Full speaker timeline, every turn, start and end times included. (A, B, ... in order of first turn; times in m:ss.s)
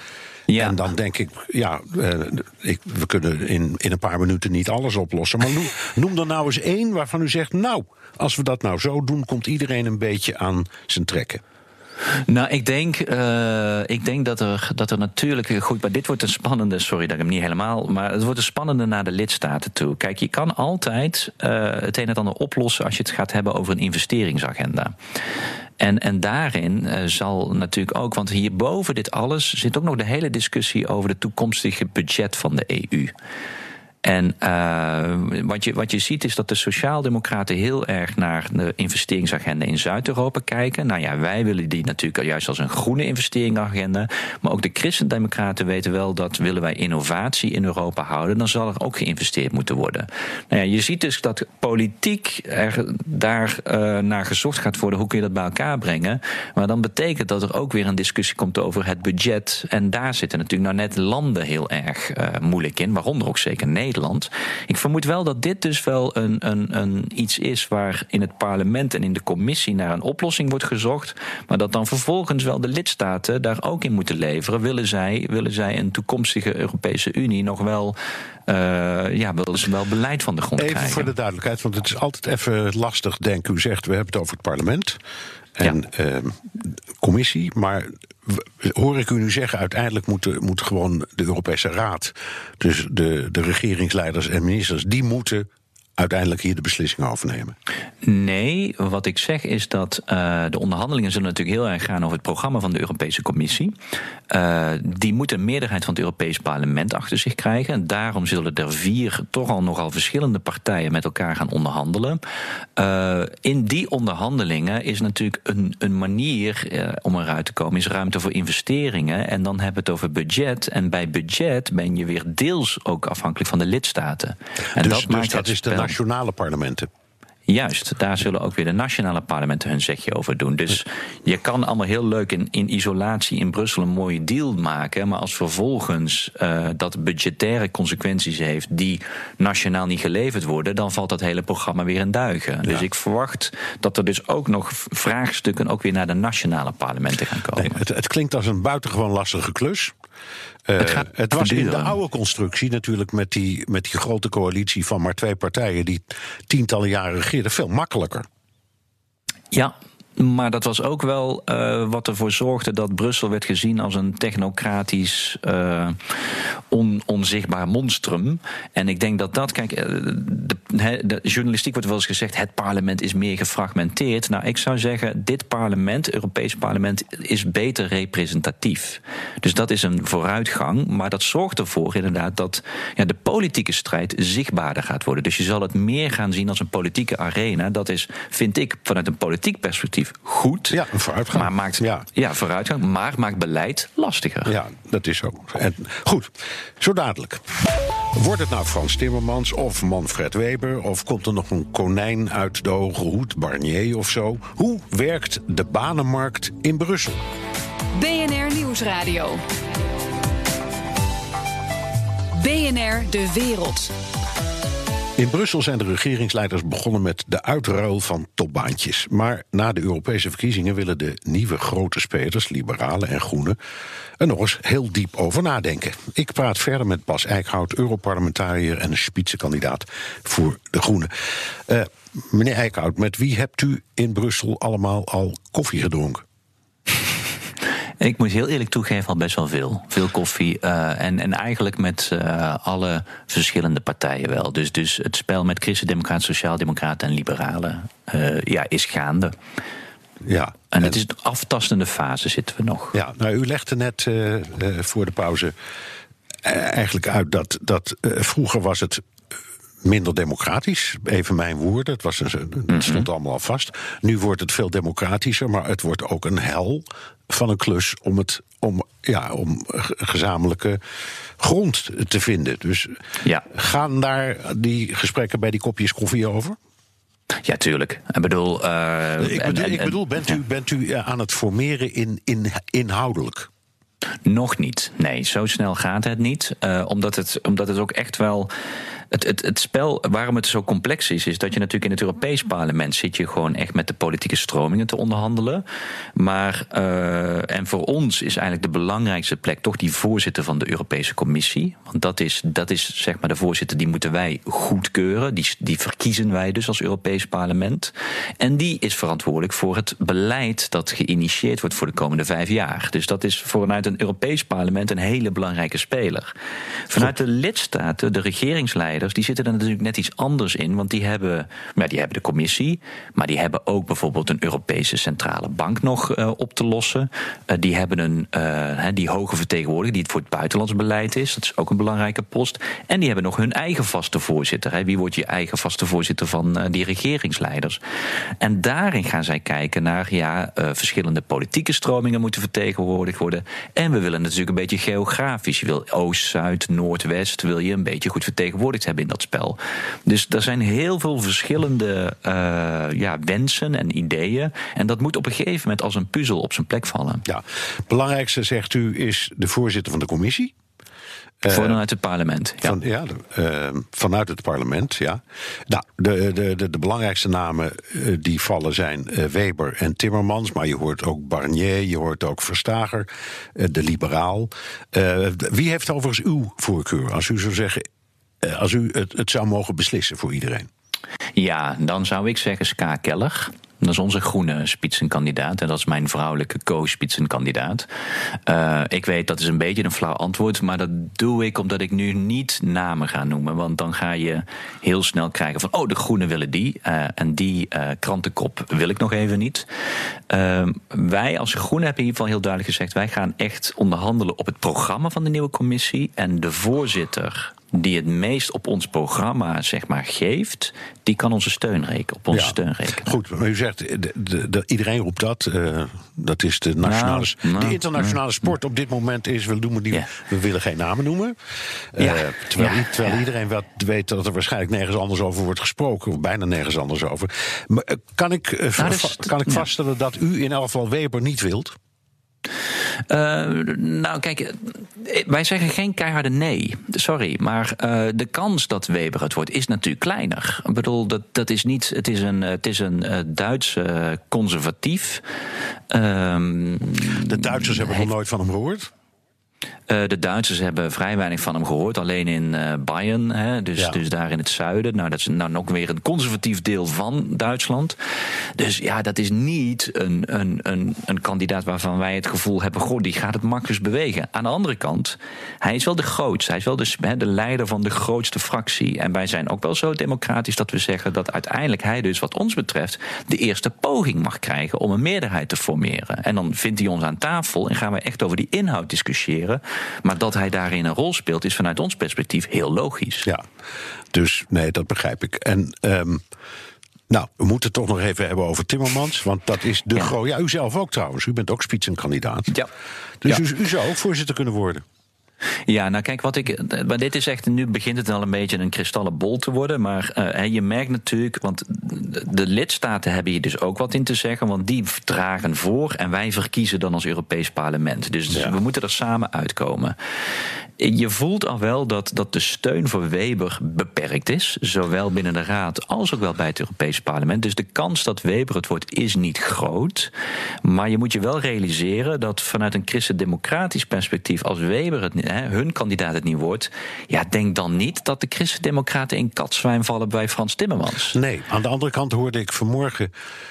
0:00.5-0:00.8 A
0:00.5-0:11.4 B
0:12.3-0:24.9 A
0:25.8-0:33.1 A
0:34.0-1:21.1 A
1:20.6-1:25.0 B
1:25.6-1:37.5 B
1:38.0-1:43.8 A
1:44.3-1:52.2 A
1:52.8-2:06.0 A
2:04.8-2:06.9 B
2:07.5-2:27.8 A
2:27.6-2:29.9 B
2:30.7-2:38.3 B
2:30.8-2:32.0 A
2:39.5-3:14.5 A
3:10.7-3:12.0 B
3:14.4-3:27.2 B
3:27.9-3:29.4 C
3:32.3-3:33.9 C
3:35.2-3:43.6 B
3:44.2-3:56.2 B
3:58.0-4:09.4 A
4:10.2-4:11.0 B
4:10.7-4:13.0 A
4:12.9-4:15.5 B
4:16.4-4:19.0 B
4:19.8-4:30.8 B
4:22.7-4:23.0 A
4:31.4-4:33.0 B
4:33.5-4:36.6 B
4:37.4-4:40.0 A
4:39.2-4:43.5 B
4:44.2-4:48.5 A
4:49.1-4:55.6 A
4:56.2-5:16.3 A
5:16.9-5:37.8 A
5:38.4-5:57.2 A
5:57.2-6:00.5 B
6:01.4-6:01.8 B
6:01.4-6:02.8 A
6:02.6-6:17.8 B
6:18.4-6:20.7 B
6:21.3-6:39.7 A
6:40.3-6:53.1 A
6:52.3-7:01.4 B
6:56.8-6:58.2 A
7:01.9-7:11.7 B
7:02.0-7:03.2 A
7:08.8-7:09.7 A
7:13.1-7:25.2 A
7:25.9-7:28.1 A
7:27.2-7:28.9 B
7:29.9-7:38.0 A
7:38.6-8:03.3 A
8:04.1-8:06.2 B
8:07.1-8:12.5 B
8:13.2-8:14.8 B
8:15.7-8:30.0 A
8:30.8-8:40.1 A
8:40.6-8:51.2 A
8:51.1-8:53.1 B